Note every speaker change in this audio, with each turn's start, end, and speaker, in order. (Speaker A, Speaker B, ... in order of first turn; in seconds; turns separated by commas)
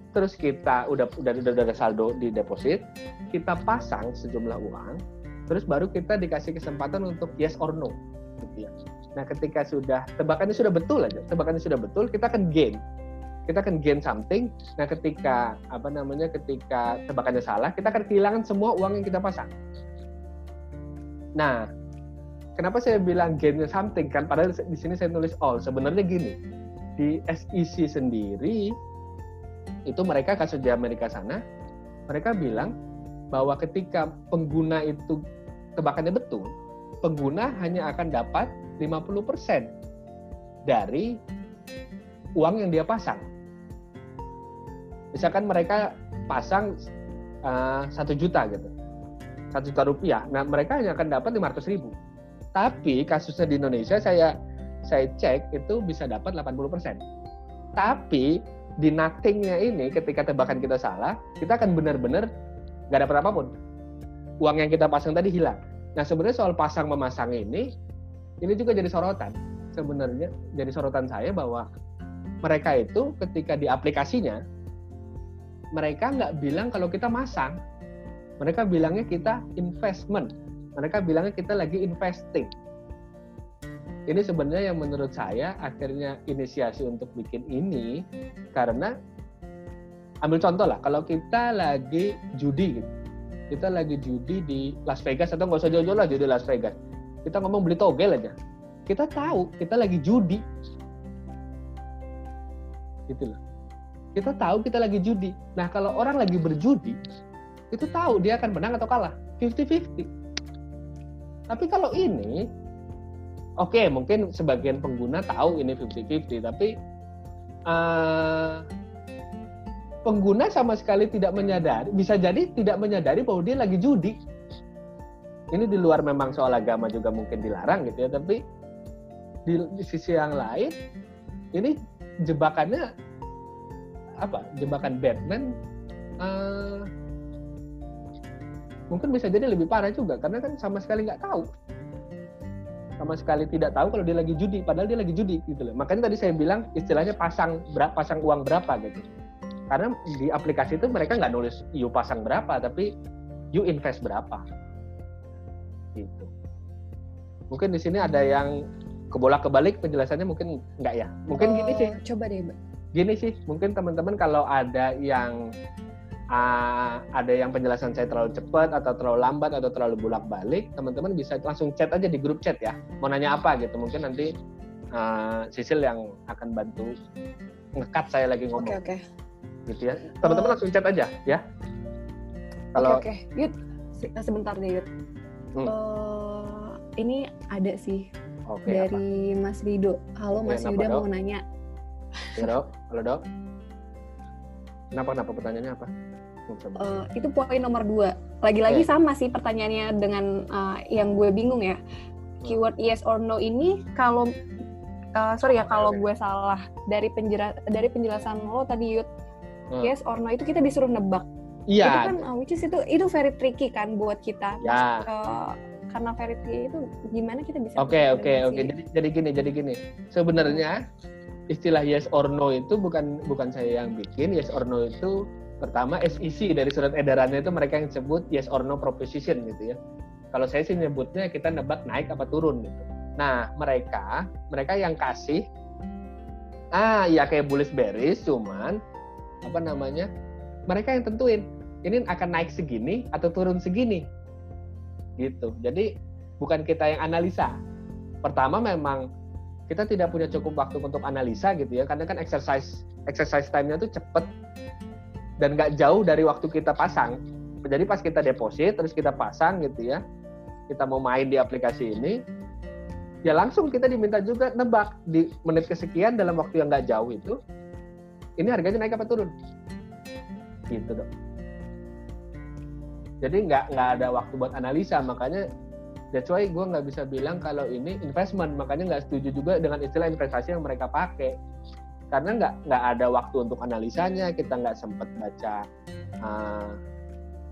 Speaker A: 0.1-2.8, Speaker A: 3.3-5.0, Speaker A: 5.5-12.8, Speaker A: 13.5-19.5, Speaker A: 21.4-21.6, Speaker A: 22.6-26.4, Speaker A: 27.0-28.7, Speaker A: 29.9-31.4, Speaker A: 32.1-32.7, Speaker A: 33.3-35.2, Speaker A: 35.8-36.5, Speaker A: 37.0-39.7, Speaker A: 40.7-41.1, Speaker A: 42.4-43.2, Speaker A: 45.1-46.7, Speaker A: 47.5-48.7, Speaker A: 49.5-51.9, Speaker A: 52.6-54.3, Speaker A: 54.9-57.0, Speaker A: 57.8-58.3, Speaker A: 58.8-62.3, Speaker A: 62.9-63.5, Speaker A: 64.4-67.7, Speaker A: 68.4-71.7, Speaker A: 72.5-74.4, Speaker A: 75.8-77.6, Speaker A: 78.4-82.5, Speaker A: 84.1-88.0, Speaker A: 88.6-88.9, Speaker A: 90.2-92.9, Speaker A: 93.5-98.3, Speaker A: 98.9-100.4, Speaker A: 103.1-103.4, Speaker A: 104.2-107.0, Speaker A: 107.7-110.1, Speaker A: 111.5-112.4, Speaker A: 113.6-116.7, Speaker A: 117.7-118.6, Speaker A: 120.1-124.2, Speaker A: 125.5-128.4, Speaker A: 129.5-130.7, Speaker A: 131.6-132.8, Speaker A: 134.2-135.5, Speaker A: 136.2-136.9, Speaker A: 138.9-141.5, Speaker A: 143.0-149.1, Speaker A: 149.7-152.9, Speaker A: 153.6-154.4, Speaker A: 156.0-156.3, Speaker A: 157.5-158.5, Speaker A: 159.1-161.9, Speaker B: 161.4-162.6, Speaker A: 162.9-165.4, Speaker A: 166.3-174.3, Speaker A: 174.9-176.9, Speaker A: 177.8-178.8, Speaker B: 178.6-179.0, Speaker A: 179.7-181.4, Speaker B: 180.2-180.6, Speaker A: 182.8-183.0, Speaker B: 182.8-184.9, Speaker B: 185.7-188.1, Speaker A: 188.5-189.0, Speaker B: 188.7-191.4, Speaker A: 190.4-191.1, Speaker B: 192.2-192.5, Speaker A: 192.4-193.2, Speaker A: 195.0-195.9, Speaker A: 196.5-197.0, Speaker B: 196.8-201.8, Speaker B: 202.5-204.3, Speaker B: 205.2-209.1, Speaker A: 205.7-206.0, Speaker B: 209.8-211.3, Speaker A: 211.7-212.2, Speaker B: 211.8-218.7, Speaker A: 214.6-215.1, Speaker A: 217.8-220.8, Speaker B: 220.4-220.6, Speaker A: 221.5-229.8, Speaker A: 230.3-235.4, Speaker A: 236.8-238.8, Speaker A: 239.4-240.1, Speaker A: 240.7-244.1, Speaker A: 245.2-245.9, Speaker A: 246.4-247.5, Speaker A: 248.2-249.0, Speaker A: 249.7-254.3, Speaker A: 255.4-257.2, Speaker A: 257.7-260.0, Speaker A: 260.7-262.2, Speaker A: 263.3-267.4, Speaker A: 268.4-269.3, Speaker A: 270.7-271.1, Speaker A: 273.2-275.4, Speaker A: 276.1-281.3, Speaker A: 282.1-285.6, Speaker A: 286.2-286.8